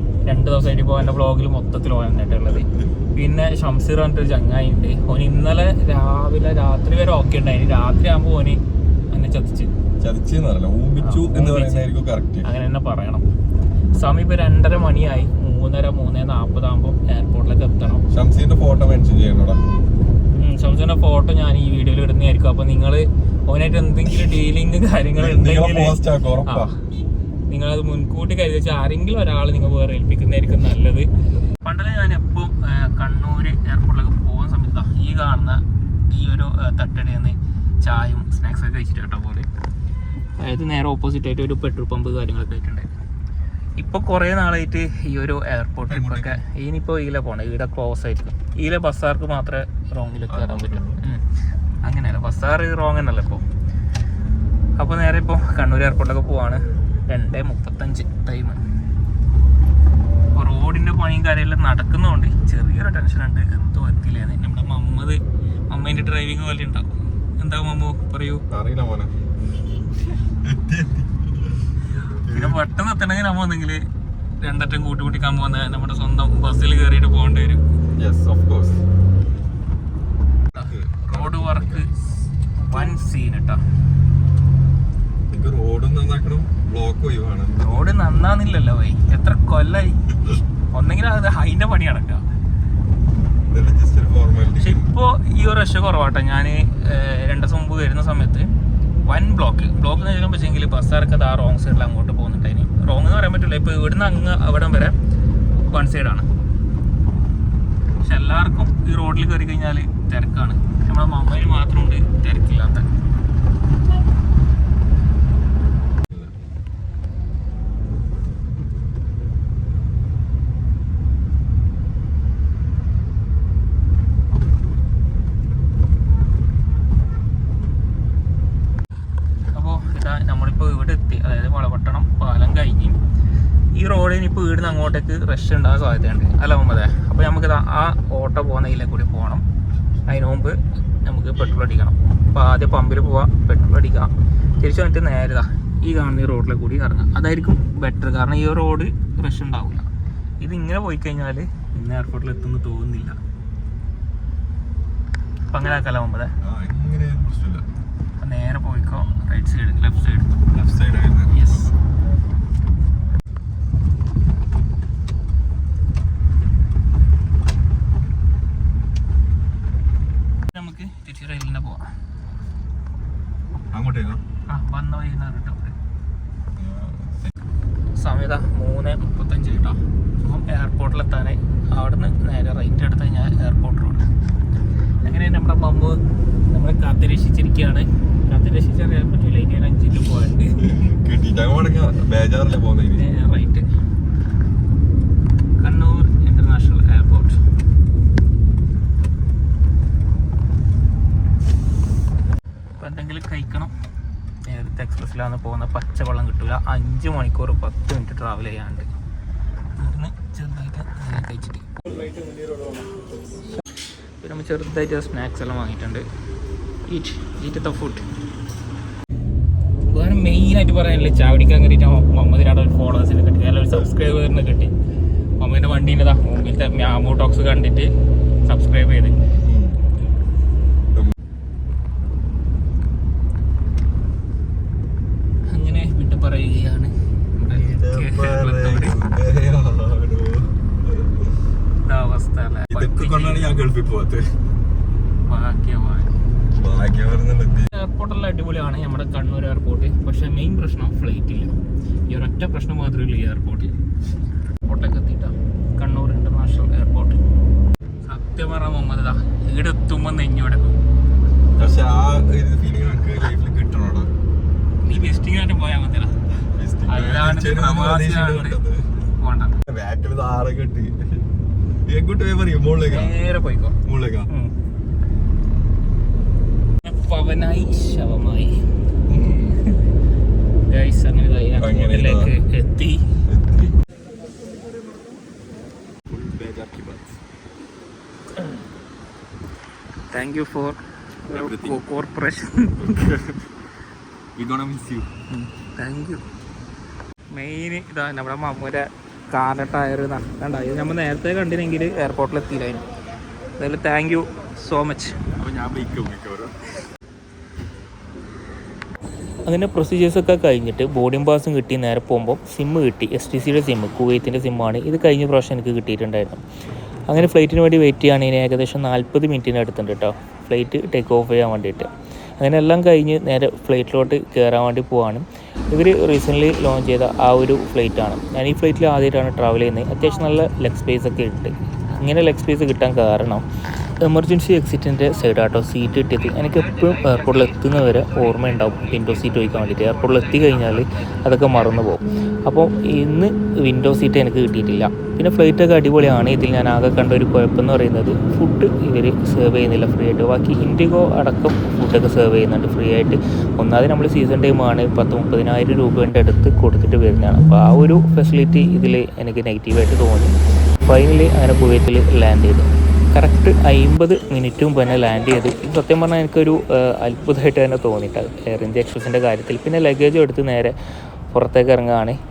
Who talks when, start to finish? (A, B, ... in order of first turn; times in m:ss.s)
0:00.3-0:08.6 A
0:02.6-0:02.8 B
0:09.1-0:09.7 A
0:10.0-0:12.5 B
0:11.0-0:11.9 A
0:12.4-0:13.2 A
0:13.9-0:18.0 A
0:18.1-0:19.6 B
0:20.4-0:26.8 A
0:25.2-0:26.7 B
0:27.5-0:31.1 A
0:31.6-0:39.5 A
0:40.4-0:42.9 A
0:43.8-0:51.2 A
0:45.9-0:46.4 B
0:50.3-0:51.0 B
0:51.8-0:53.4 A
0:54.8-0:58.6 A
1:00.4-1:08.4 A
1:08.5-1:09.1 B
1:10.4-1:11.7 B
1:12.3-1:12.6 B
1:12.3-1:13.8 A
1:14.4-1:17.6 A
1:18.0-1:18.8 B
1:20.5-1:22.0 B
1:20.6-1:21.9 A
1:22.6-1:23.6 A
1:25.3-1:27.9 B
1:27.6-1:30.1 A
1:30.7-1:32.3 A
1:33.5-1:34.9 B
1:34.6-1:38.5 A
1:39.1-1:45.0 A
1:45.6-1:46.3 A
1:48.0-1:52.9 A
2:09.5-2:13.0 A
2:13.8-2:19.4 A
2:20.1-2:29.9 A
2:30.4-2:33.2 A
2:35.5-2:36.3 A
2:36.4-2:37.7 B
2:38.2-2:40.3 A
2:40.5-2:41.7 B
2:41.3-2:41.7 A
2:50.5-2:51.9 A
2:53.7-2:54.2 B
2:54.5-2:55.8 A
2:56.6-2:57.3 B
2:58.0-3:04.1 A
3:05.0-3:06.0 A
3:06.5-3:10.6 A
3:10.6-3:13.1 B
3:13.0-3:13.7 A
3:15.6-3:17.4 A
3:22.8-3:23.7 A
3:24.5-3:28.9 A
3:29.8-3:32.2 A
3:34.2-3:36.1 A
3:36.9-3:38.0 A
3:39.9-3:44.7 A
3:45.4-3:47.9 A
3:48.5-3:49.2 A
3:49.4-3:49.8 B
3:55.5-3:59.0 A
3:57.5-4:01.2 B
4:01.8-4:03.5 A
4:02.7-4:04.4 B
4:05.3-4:06.2 A
4:06.6-4:07.7 B
4:07.7-4:11.6 A
4:12.1-4:13.7 A
4:14.6-4:17.2 A
4:18.0-4:20.8 A
4:21.6-4:24.1 B
4:24.8-4:26.2 A
4:26.4-4:29.0 B
4:26.9-4:28.6 A
4:29.2-4:29.6 A
4:29.7-4:31.2 B
4:31.9-4:33.1 B
4:32.9-4:34.5 A
4:33.8-4:34.3 B
4:36.8-4:38.6 A
4:39.1-4:39.8 A
4:40.7-4:43.0 A
4:41.6-4:42.3 B
4:43.3-4:43.8 B
4:46.1-4:47.2 B
4:50.1-4:53.0 A
4:51.3-4:51.8 B
4:52.8-4:53.4 B
4:54.4-4:55.1 B
4:55.3-4:56.2 A
4:57.3-5:02.9 A
5:03.6-5:05.2 A
5:05.4-5:06.6 B
5:09.4-5:16.4 A
5:17.1-5:33.4 A
5:34.0-6:00.3 A
6:00.8-6:10.8 A
6:11.3-6:12.2 A